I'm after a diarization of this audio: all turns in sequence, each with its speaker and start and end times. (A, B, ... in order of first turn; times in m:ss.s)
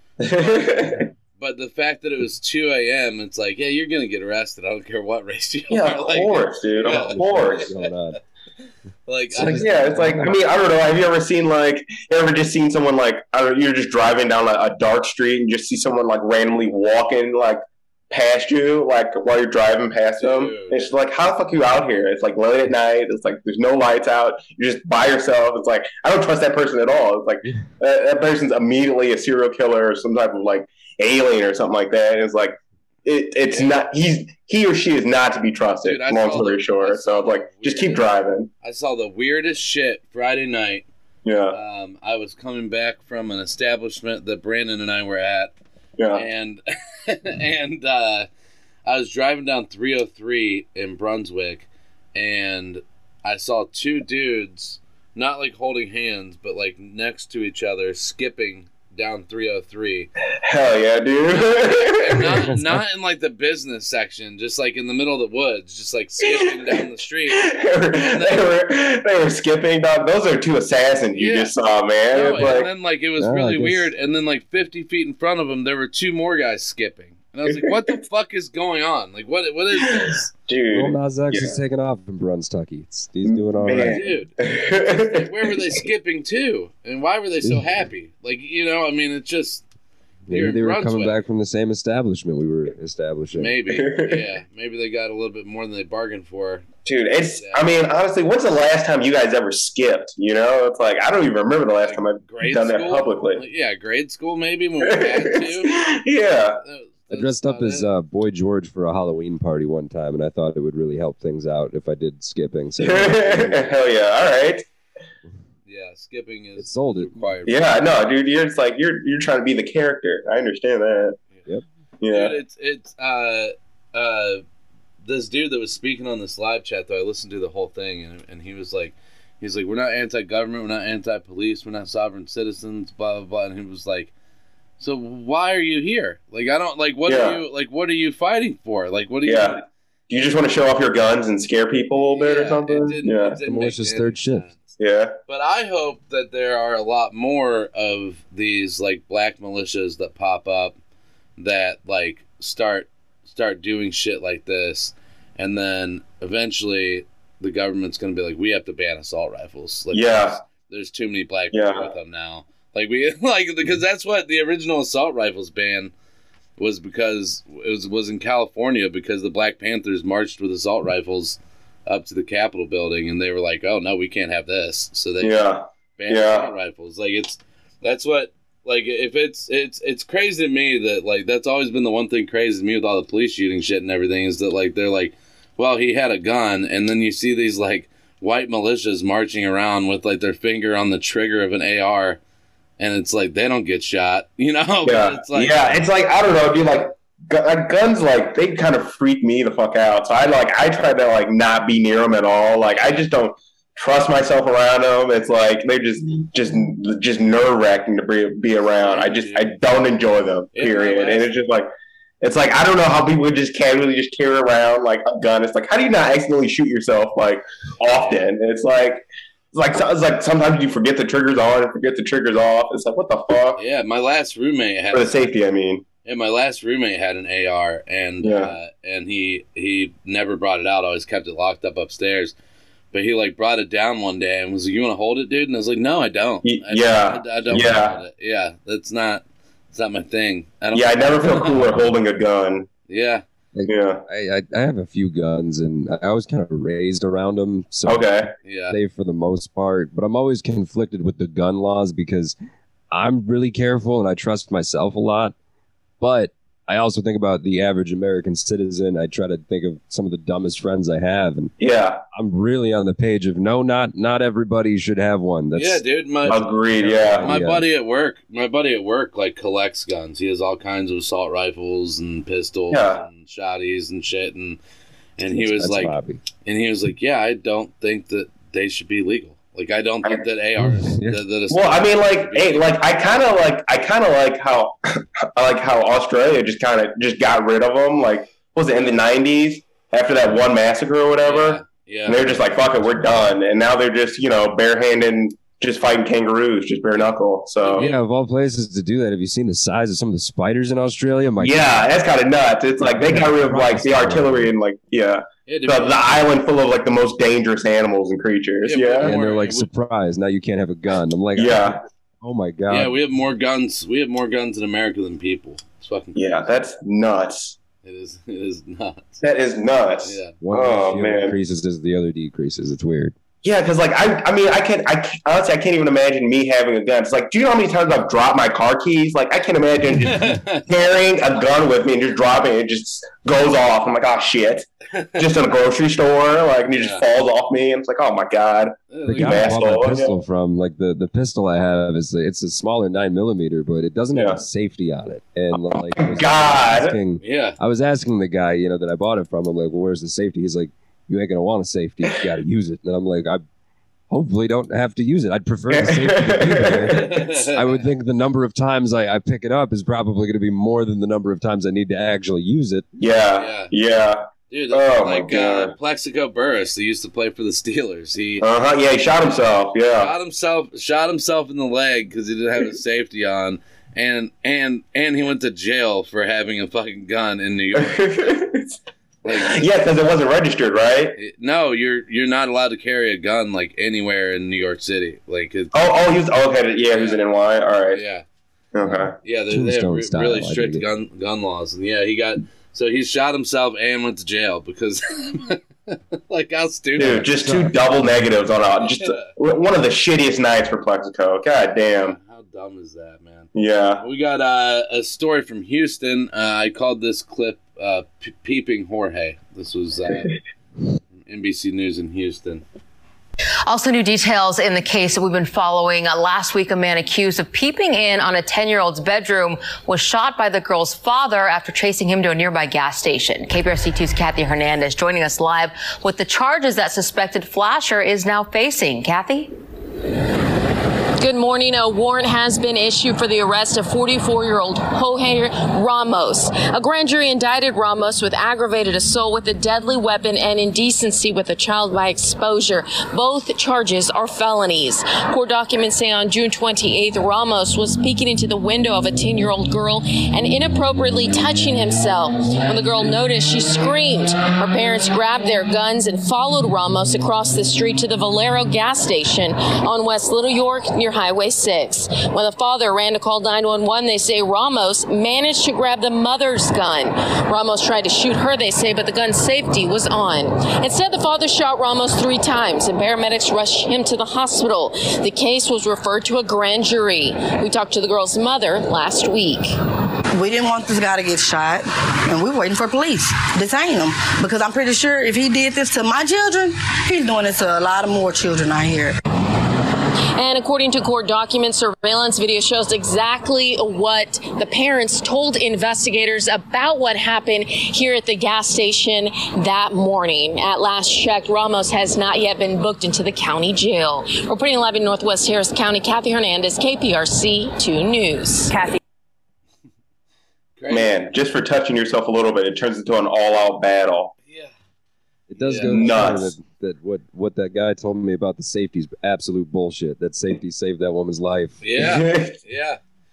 0:00.2-0:01.0 A
0:00.3-0:07.9 B
0:05.7-0:07.7 A
0:06.8-0:08.2 C
0:09.1-0:10.4 B
0:09.3-0:10.3 C
0:09.5-0:38.5 A
0:20.2-0:20.8 B
0:33.5-0:33.8 B
0:35.8-0:38.0 B
0:38.6-0:40.8 B
0:41.2-0:41.6 A
0:41.5-0:45.5 B
0:46.0-0:46.2 A
0:46.1-0:48.3 B
0:48.8-1:00.1 B
1:00.4-1:02.5 A
1:01.4-1:08.6 B
1:02.5-1:02.8 C
1:06.2-1:12.7 A
1:11.1-1:11.5 B
1:12.1-1:20.3 B
1:13.2-1:13.9 C
1:19.8-1:21.5 A
1:20.7-1:24.0 C
1:23.2-1:25.6 A
1:23.8-1:29.6 B
1:30.3-1:33.5 C
1:30.3-1:31.2 B
1:33.4-1:36.7 B
1:33.7-1:34.3 A
1:36.8-1:43.4 A
1:37.4-1:37.7 B
1:41.8-1:45.8 B
1:44.8-1:46.6 A
1:46.6-1:47.9 B
1:47.1-1:53.7 C
1:52.8-1:54.6 A
1:55.7-1:57.7 B
1:56.6-1:57.4 C
1:57.4-2:01.2 A
2:02.0-2:02.4 A
2:02.1-2:04.4 B
2:05.0-2:14.1 B
2:14.8-2:19.6 B
2:17.1-2:17.4 A
2:19.2-2:23.4 A
2:21.9-2:30.8 B
2:23.4-2:24.5 C
2:24.8-2:25.1 A
2:31.4-2:45.9 B
2:39.9-2:40.4 A
2:41.5-2:41.9 A
2:46.6-2:55.4 B
2:55.2-2:56.5 A
2:56.0-3:12.2 B
3:12.8-3:15.9 B
3:14.8-3:31.7 A
3:28.8-3:29.5 B
3:30.5-3:31.3 B
3:32.2-3:43.6 A
3:43.6-3:45.3 B
3:44.9-3:45.8 A
3:46.0-3:52.3 B
3:48.2-3:48.5 A
3:52.9-4:01.9 B
3:56.4-3:58.0 A
4:00.7-4:02.7 A
4:02.9-4:03.2 B
4:03.5-4:08.0 C
4:03.7-4:04.0 A
4:07.8-4:08.3 A
4:08.4-4:08.8 B
4:08.7-4:12.4 C
4:12.9-4:15.3 C
4:16.0-4:21.5 C
4:21.6-4:22.0 A
4:22.1-4:25.8 C
4:25.5-4:34.6 B
4:26.2-4:27.3 A
4:26.8-4:27.6 C
4:32.7-4:33.0 A
4:35.2-4:35.9 B
4:35.2-4:36.2 C
4:36.4-4:42.8 B
4:40.6-4:41.2 C
4:41.5-4:57.8 A
4:51.2-4:52.3 B
4:57.6-4:58.0 B
4:57.7-5:01.9 C
5:01.4-5:09.2 A
5:02.8-5:04.5 C
5:05.5-5:06.4 B
5:08.6-5:09.7 B
5:09.0-5:13.0 C
5:11.4-5:11.8 A
5:12.7-5:16.5 B
5:16.1-5:17.6 A
5:17.8-5:19.2 B
5:19.2-5:21.4 A
5:20.0-5:20.4 B
5:20.4-5:23.1 C
5:23.4-5:40.1 A
5:30.0-5:30.7 B
5:36.8-5:37.0 B
5:38.9-5:39.6 B
5:39.0-5:53.4 C
5:44.1-5:44.4 A
5:45.5-5:47.0 A
5:47.2-5:47.6 B
5:54.1-6:02.8 C
5:55.7-5:57.1 A
5:56.9-5:57.8 B
6:03.0-6:05.7 A
6:03.4-6:03.7 B
6:04.5-6:08.5 B
6:08.4-6:10.1 A
6:09.3-6:18.4 B
6:17.8-6:18.8 A
6:19.2-6:19.7 B
6:19.3-6:21.2 A
6:21.1-6:25.9 B
6:25.7-6:28.0 A
6:26.9-6:27.3 B
6:27.9-6:28.2 B
6:28.7-6:29.1 A
6:28.8-6:30.9 C
6:29.2-6:37.3 B
6:37.0-6:42.2 A
6:37.0-6:37.8 C
6:38.8-6:39.3 B
6:42.0-6:50.4 B
6:43.5-6:44.0 A
6:51.2-6:52.6 B
6:53.7-7:09.5 D
7:11.2-7:59.7 E
8:00.3-8:09.2 F
8:10.4-8:28.8 E
8:30.8-8:31.3 B
8:30.9-8:34.3 A
8:35.5-8:41.8 C
8:35.6-8:36.2 B
8:35.8-8:36.5 A
8:41.8-8:43.0 B
8:42.0-8:42.6 A